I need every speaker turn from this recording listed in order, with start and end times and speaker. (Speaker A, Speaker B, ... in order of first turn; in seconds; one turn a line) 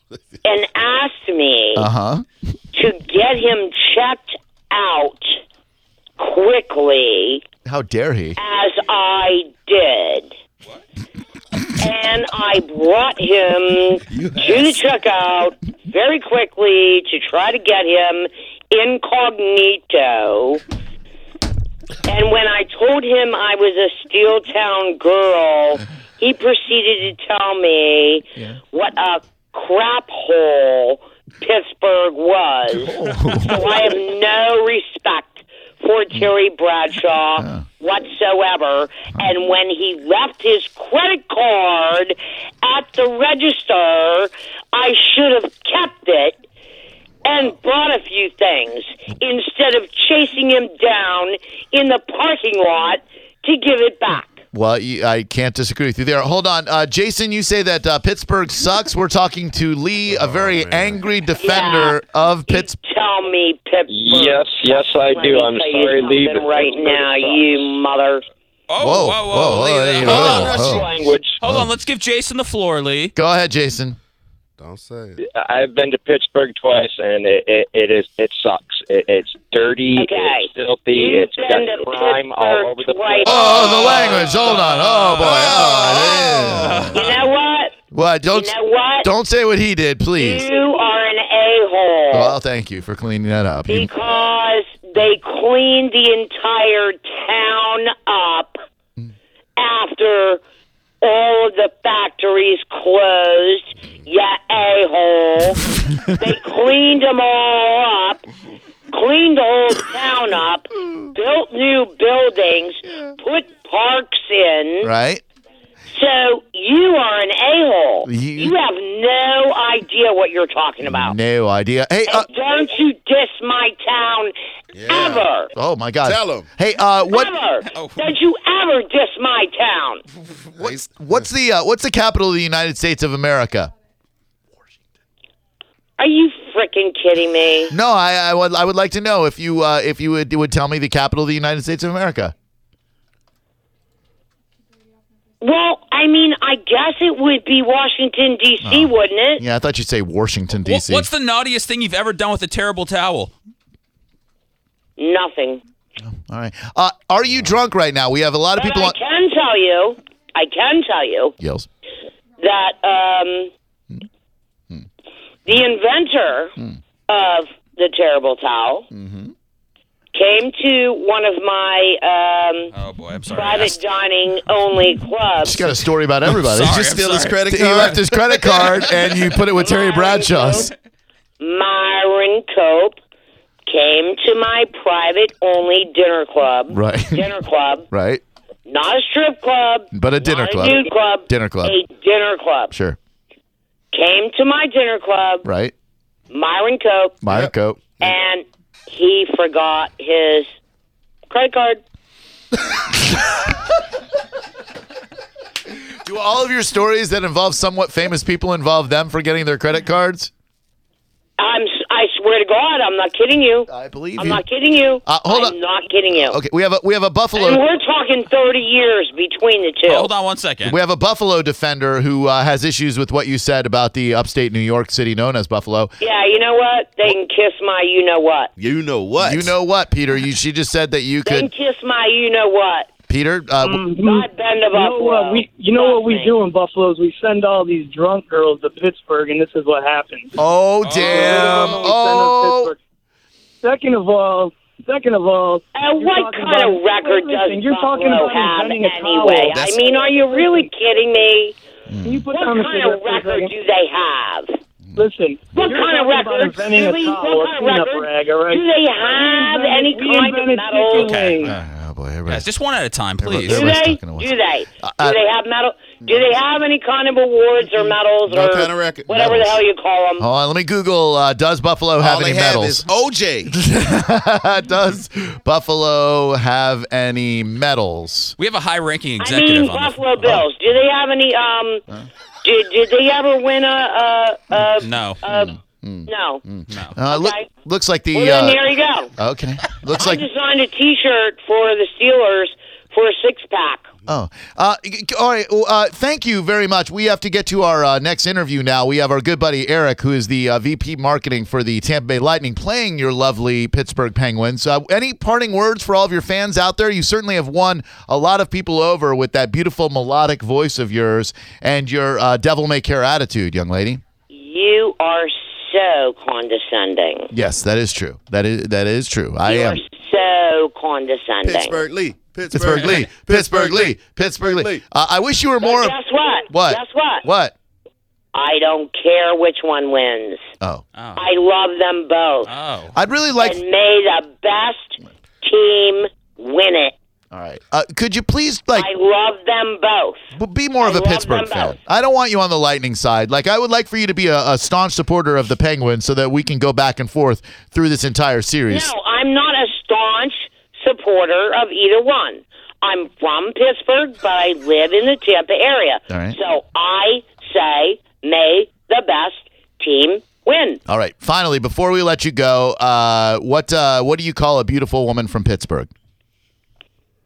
Speaker A: 0.4-1.9
Speaker B: 1.7-2.2
Speaker A: 2.7-5.4
Speaker A: 6.2-7.4
Speaker B: 7.6-8.4
Speaker A: 8.4-10.3
Speaker A: 11.8-20.6
Speaker C: 14.1-14.6
Speaker A: 22.0-46.3
Speaker B: 32.9-33.8
Speaker B: 37.4-37.7
Speaker A: 47.2-54.4
Speaker B: 54.5-62.7
Speaker C: 60.1-61.0
Speaker A: 61.4-68.2
Speaker D: 63.9-67.5
Speaker E: 68.7-70.8
Speaker B: 68.8-70.8
Speaker C: 70.6-70.9
Speaker D: 70.6-71.3
Speaker E: 71.4-73.1
Speaker B: 71.4-71.7
Speaker B: 73.2-74.0
Speaker C: 74.6-75.2
Speaker D: 75.3-83.3
Speaker A: 80.0-84.2
Speaker B: 83.2-87.0
Speaker E: 83.7-87.2
Speaker A: 85.6-87.7
Speaker B: 87.9-90.5
Speaker A: 88.3-89.1
Speaker A: 90.2-92.3
Speaker B: 92.1-93.9
Speaker A: 93.7-98.6
Speaker A: 99.6-100.4
Speaker A: 101.0-108.2
Speaker A: 108.9-114.9
Speaker B: 114.8-115.2
Speaker A: 115.9-121.1
Speaker B: 118.0-118.5
Speaker B: 120.8-122.3
Speaker A: 122.1-124.3
Speaker C: 124.7-125.3
Speaker A: 124.8-125.5
Speaker B: 125.5-127.3
Speaker C: 126.0-126.5
Speaker A: 127.1-130.0
Speaker E: 127.7-128.1
Speaker C: 130.5-130.9
Speaker B: 130.6-133.7
Speaker A: 136.0-137.7
Speaker B: 137.7-142.3
Speaker A: 145.4-149.4
Speaker B: 148.6-151.1
Speaker E: 150.6-153.3
Speaker A: 155.0-155.6
Speaker B: 156.0-158.9
Speaker A: 158.6-161.3
Speaker B: 161.4-161.7
Speaker A: 162.4-163.5
Speaker A: 165.4-166.6
Speaker A: 167.1-168.9
Speaker B: 168.9-169.3
Speaker A: 170.1-172.7
Speaker E: 172.7-173.8
Speaker A: 173.3-175.6
Speaker B: 175.4-180.7
Speaker E: 176.4-177.4
Speaker C: 176.7-178.8
Speaker A: 179.5-180.7
Speaker A: 181.4-183.0
Speaker A: 183.7-187.9
Speaker B: 186.7-187.3
Speaker B: 187.9-188.2
Speaker A: 188.7-192.7
Speaker B: 189.9-191.8
Speaker B: 192.7-193.0
Speaker A: 193.9-195.4
Speaker B: 195.4-195.7
Speaker A: 196.3-197.2
Speaker B: 197.2-198.1
Speaker A: 198.0-200.5
Speaker A: 201.3-201.8
Speaker B: 205.7-210.3
Speaker A: 211.4-216.4
Speaker B: 213.7-214.4
Speaker B: 215.0-215.6
Speaker B: 216.1-217.6
Speaker A: 217.3-220.1
Speaker E: 219.9-220.8
Speaker B: 220.6-225.9
Speaker A: 226.0-228.5
Speaker C: 228.6-229.5
Speaker B: 229.2-231.5
Speaker A: 231.2-232.9
Speaker B: 233.1-233.9
Speaker F: 233.6-240.3
Speaker A: 233.9-236.3
Speaker B: 240.4-242.7
Speaker E: 240.8-241.9
Speaker F: 241.0-242.8
Speaker F: 243.6-250.7
Speaker A: 245.7-251.6
Speaker B: 251.9-252.2
Speaker F: 252.0-253.5
Speaker A: 252.3-254.6
Speaker F: 254.9-261.5
Speaker A: 255.5-261.2
Speaker E: 260.9-261.5
Speaker B: 261.4-262.5
Speaker E: 262.3-263.7
Speaker B: 263.2-265.2
Speaker A: 263.5-270.2
Speaker C: 268.3-269.6
Speaker B: 270.2-272.8
Speaker C: 272.0-273.6
Speaker B: 273.5-278.4
Speaker E: 278.4-280.0
Speaker A: 279.2-281.8
Speaker A: 282.4-286.4
Speaker E: 284.8-285.2
Speaker B: 285.2-288.6
Speaker E: 286.7-286.9
Speaker A: 287.1-287.4
Speaker A: 288.1-289.1
Speaker B: 289.2-290.3
Speaker A: 289.9-293.9
Speaker B: 294.1-314.0
Speaker A: 314.3-317.3
Speaker B: 317.3-319.8
Speaker A: 319.4-321.8
Speaker C: 321.4-324.8
Speaker B: 322.5-326.0
Speaker A: 325.6-327.2
Speaker B: 326.5-327.5
Speaker A: 328.3-330.5
Speaker E: 330.9-331.2
Speaker A: 331.1-332.5
Speaker E: 332.4-332.9
Speaker B: 332.9-333.6
Speaker A: 333.4-336.9
Speaker B: 337.3-338.9
Speaker A: 338.7-340.3
Speaker B: 340.3-348.9
Speaker A: 340.8-341.8
Speaker A: 348.7-360.8
Speaker B: 356.1-356.4
Speaker B: 360.9-365.9